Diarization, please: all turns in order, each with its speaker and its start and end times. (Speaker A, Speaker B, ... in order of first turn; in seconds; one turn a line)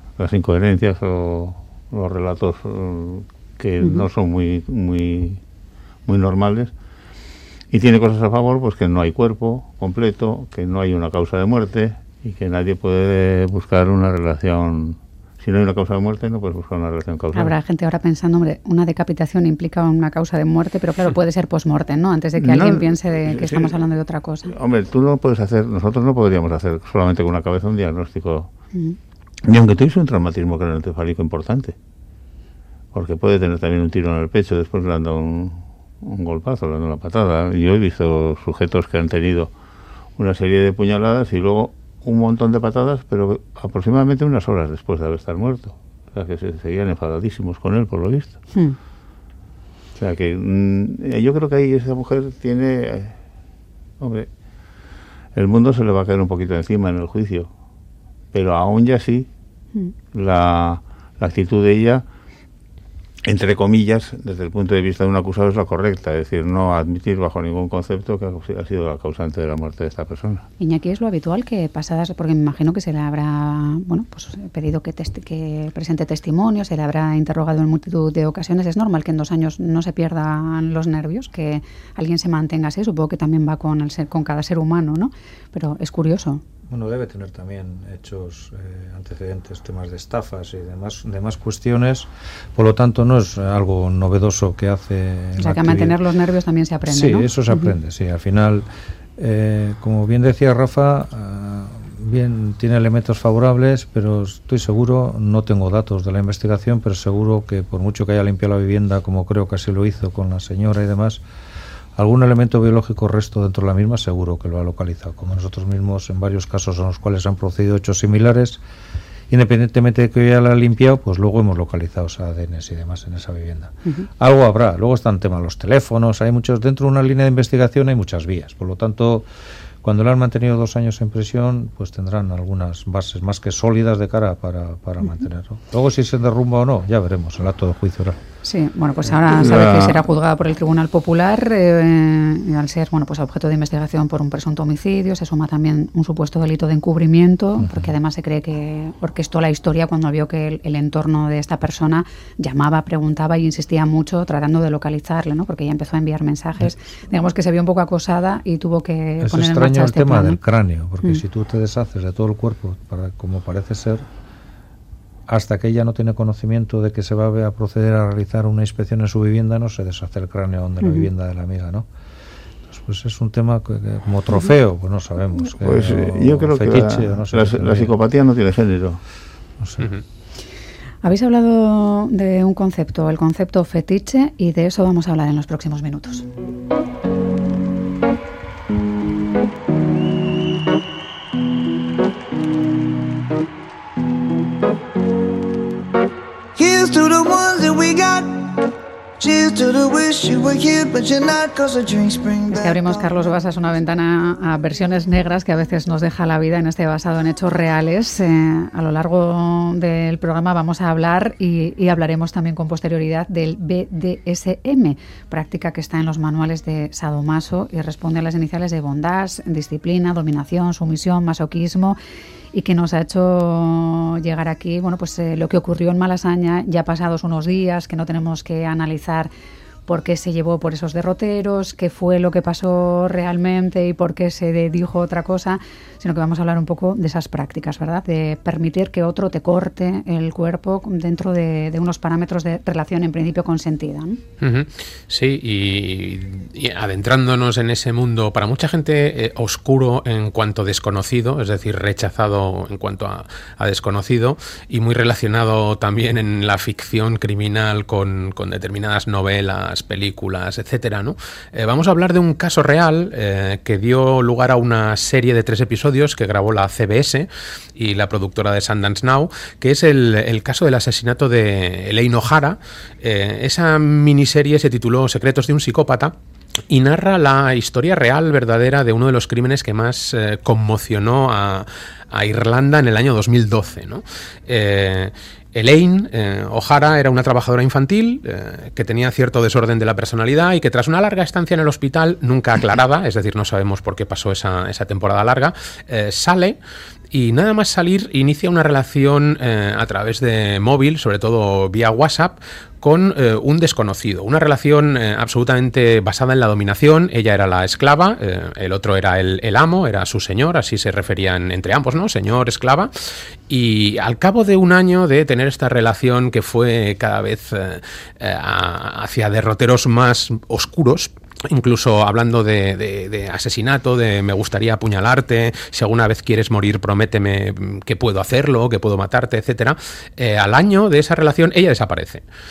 Speaker A: 0.2-5.4
Speaker B: 3.8-4.1
Speaker A: 6.1-6.7
Speaker A: 7.7-17.6
Speaker B: 17.3-24.5
Speaker A: 22.4-23.8
Speaker A: 24.4-28.5
Speaker A: 29.4-31.8
Speaker A: 32.9-39.5
Speaker A: 40.2-48.4
Speaker A: 50.0-53.2
Speaker A: 54.0-54.3
Speaker A: 55.4-57.5
Speaker A: 58.3-59.3
Speaker A: 60.1-62.0
Speaker A: 63.2-70.5
Speaker B: 70.6-86.4
Speaker C: 86.7-96.0
Speaker B: 95.4-97.7
Speaker C: 96.9-111.2
Speaker C: 112.0-118.6
Speaker C: 119.3-129.3
Speaker C: 129.8-138.2
Speaker B: 138.4-160.4
Speaker A: 139.2-140.1
Speaker C: 147.6-147.9
Speaker C: 159.2-164.1
Speaker C: 165.3-171.9
Speaker B: 170.8-171.1
Speaker C: 172.7-177.9
Speaker A: 175.5-179.0
Speaker C: 179.6-179.9
Speaker B: 181.0-186.3
Speaker D: 196.6-198.7
Speaker D: 199.2-203.0
Speaker B: 202.5-222.0
Speaker B: 222.5-229.3
Speaker B: 229.9-244.2
Speaker E: 244.4-276.1
Speaker E: 276.7-296.6
Speaker E: 297.1-312.9
Speaker E: 313.5-332.2